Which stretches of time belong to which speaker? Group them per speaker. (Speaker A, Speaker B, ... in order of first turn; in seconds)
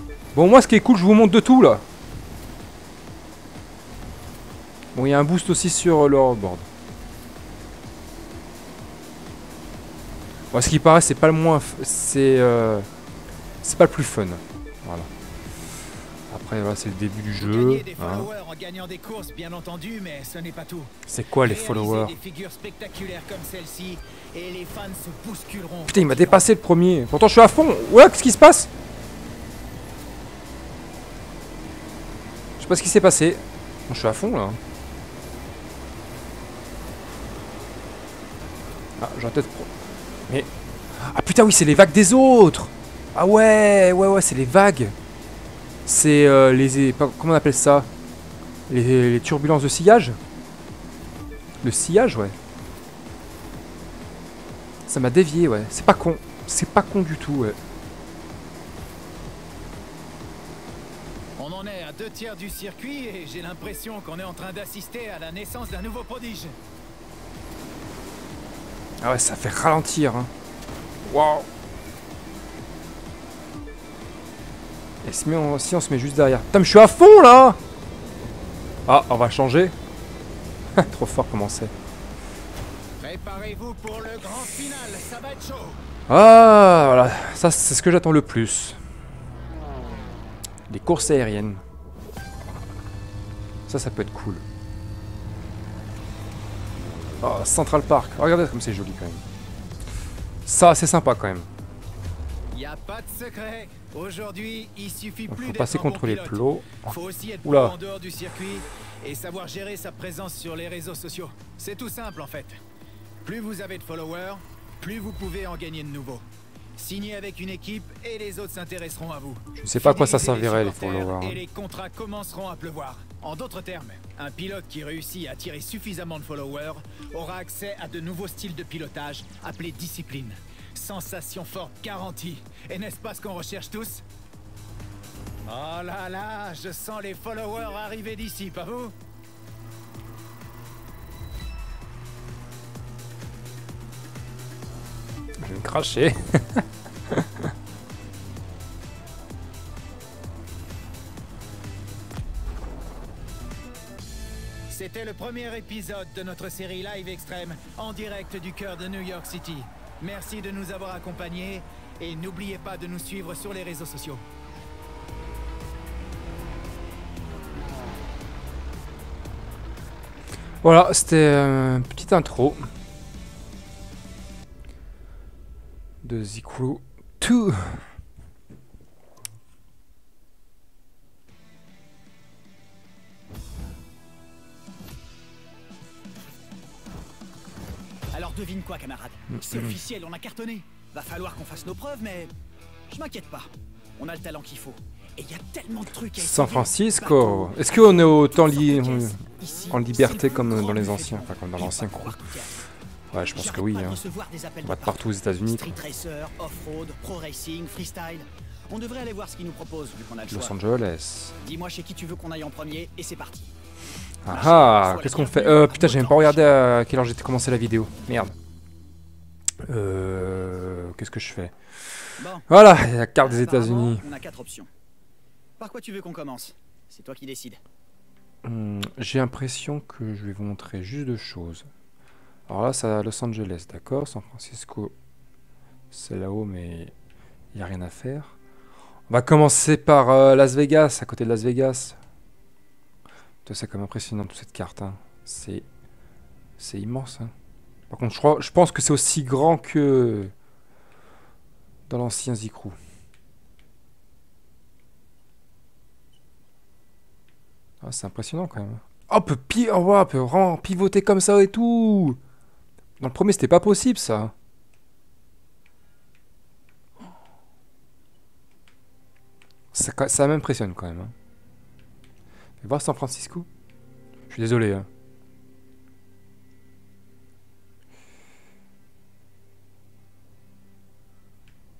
Speaker A: 0.3-1.8, 4.9-6.7, 10.5-12.9, 13.6-15.1, 16.3-18.3, 21.1-22.1, 25.9-28.7, 32.6-34.6, 39.0-39.7, 40.3-44.9, 45.9-47.9, 48.7-50.2, 51.6-52.4, 54.9-57.6, 69.0-70.3, 71.0-71.5, 75.0-77.6, 78.8-79.7, 80.8-81.7, 86.1-88.8, 90.7-91.6, 93.7-94.4, 97.2-99.2, 100.4-101.5, 105.3-106.9, 107.4-107.7, 119.5-121.4, 145.4-147.5, 170.6-172.7, 176.0-177.9, 189.3-189.7, 196.2-202.2, 203.1-204.0, 204.6-205.7, 210.3-211.4, 214.2-218.3, 219.6-224.0, 228.4-231.7, 232.5-234.9, 235.9-236.9, 237.5-238.3, 239.1-242.0, 243.4-245.7, 246.6-247.3, 247.9-250.3, 251.9-252.8, 257.8-262.2, 263.0-264.3, 269.7-271.1, 272.6-273.5, 274.3-274.9
Speaker B: 17.4-26.4, 61.4-66.6, 83.0-85.8, 102.5-112.6, 113.2-116.2, 116.8-134.0, 135.5-138.9, 154.7-164.2
Speaker C: 188.1-192.3, 192.9-202.6, 203.2-210.6, 211.4-213.5, 214.2-216.6, 222.2-222.6, 223.2-224.7, 225.6-227.6